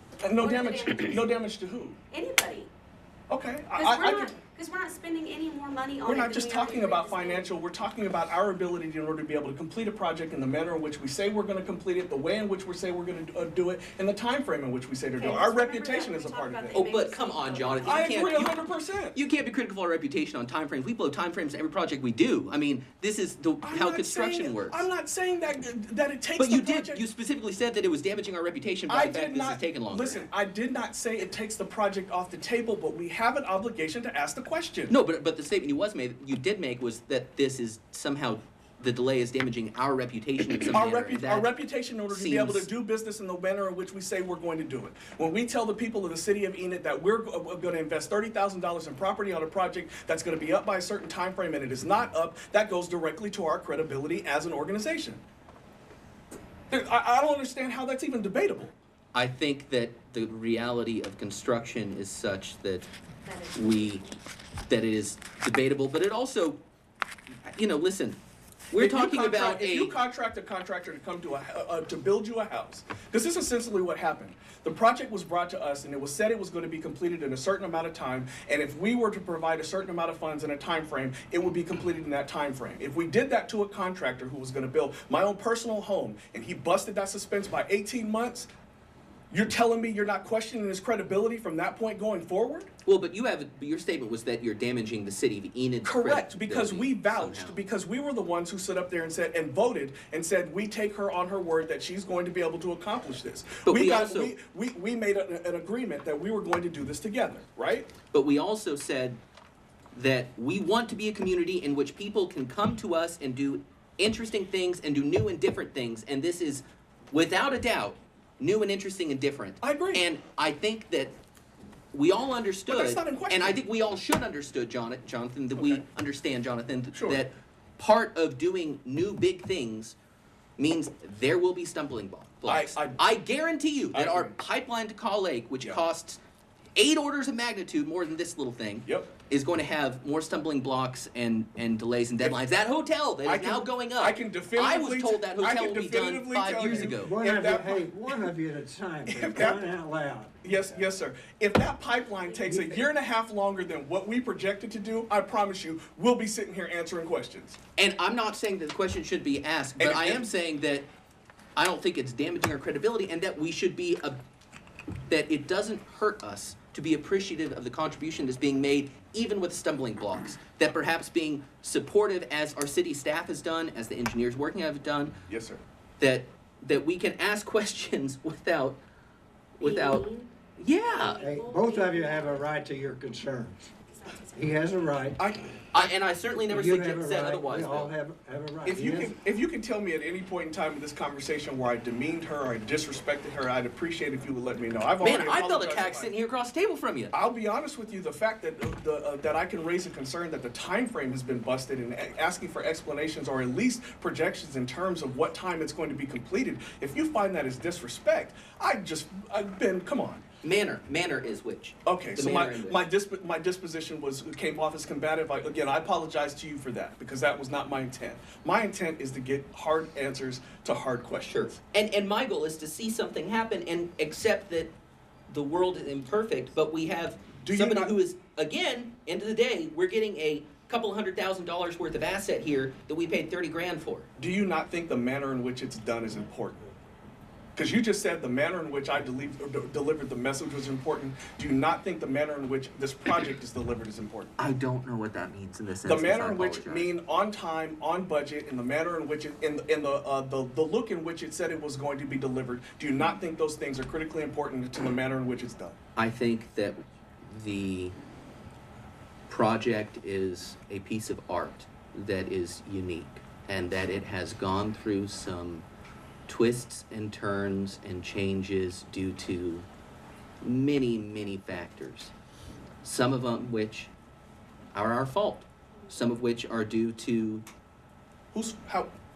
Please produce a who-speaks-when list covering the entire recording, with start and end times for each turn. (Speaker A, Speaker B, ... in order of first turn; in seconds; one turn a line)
Speaker A: 0.2-2.0
Speaker B: 0.4-1.2
Speaker B: 2.1-2.7
Speaker A: 3.3-4.3
Speaker B: 3.7-7.5
Speaker A: 6.0-16.9
Speaker B: 15.2-18.4
Speaker C: 16.7-18.6
Speaker A: 17.8-19.2
Speaker C: 19.1-24.9
Speaker A: 23.6-27.0
Speaker C: 26.4-30.3
Speaker A: 28.9-34.9
Speaker C: 34.9-41.5
Speaker A: 40.7-55.2
Speaker C: 42.1-42.7
Speaker A: 56.7-58.7
Speaker C: 59.1-62.9
Speaker B: 63.2-64.0
Speaker C: 63.5-64.0
Speaker C: 64.7-66.6
Speaker C: 67.4-68.2
Speaker C: 68.7-69.9
Speaker A: 68.8-88.5
Speaker A: 89.3-92.7
Speaker C: 92.8-97.6
Speaker A: 95.8-107.9
Speaker C: 103.6-104.3
Speaker C: 108.1-109.2
Speaker C: 109.9-121.1
Speaker A: 119.6-120.0
Speaker C: 121.9-129.9
Speaker A: 122.7-123.6
Speaker A: 125.5-125.8
Speaker A: 126.9-127.2
Speaker C: 130.6-136.2
Speaker A: 132.4-133.0
Speaker A: 133.9-134.3
Speaker C: 136.8-147.2
Speaker A: 138.8-139.1
Speaker A: 143.2-148.2
Speaker D: 146.7-150.5
Speaker A: 149.1-149.7
Speaker A: 150.4-157.6
Speaker B: 152.2-152.6
Speaker D: 152.4-152.8
Speaker C: 157.8-160.9
Speaker A: 159.8-160.3
Speaker C: 161.6-164.2
Speaker C: 165.1-175.2
Speaker A: 175.3-175.6
Speaker C: 176.0-178.8
Speaker C: 179.6-180.1
Speaker B: 179.6-180.3
Speaker C: 180.6-181.2
Speaker B: 180.8-182.5
Speaker D: 181.2-183.7
Speaker B: 183.9-184.8
Speaker D: 184.3-185.2
Speaker A: 185.2-185.9
Speaker C: 185.7-187.9
Speaker D: 186.5-189.1
Speaker A: 188.6-196.1
Speaker C: 195.0-197.1
Speaker A: 197.1-210.2
Speaker C: 210.4-212.8
Speaker A: 211.8-221.4
Speaker C: 221.2-224.7
Speaker C: 225.3-234.1
Speaker A: 227.4-227.9
Speaker A: 234.2-236.6
Speaker A: 237.6-244.4
Speaker C: 244.4-246.9
Speaker A: 245.8-255.8
Speaker C: 255.9-257.9
Speaker C: 259.3-265.6
Speaker C: 266.3-269.6
Speaker C: 270.4-272.1
Speaker C: 272.8-273.9
Speaker C: 274.7-277.4
Speaker A: 278.3-278.9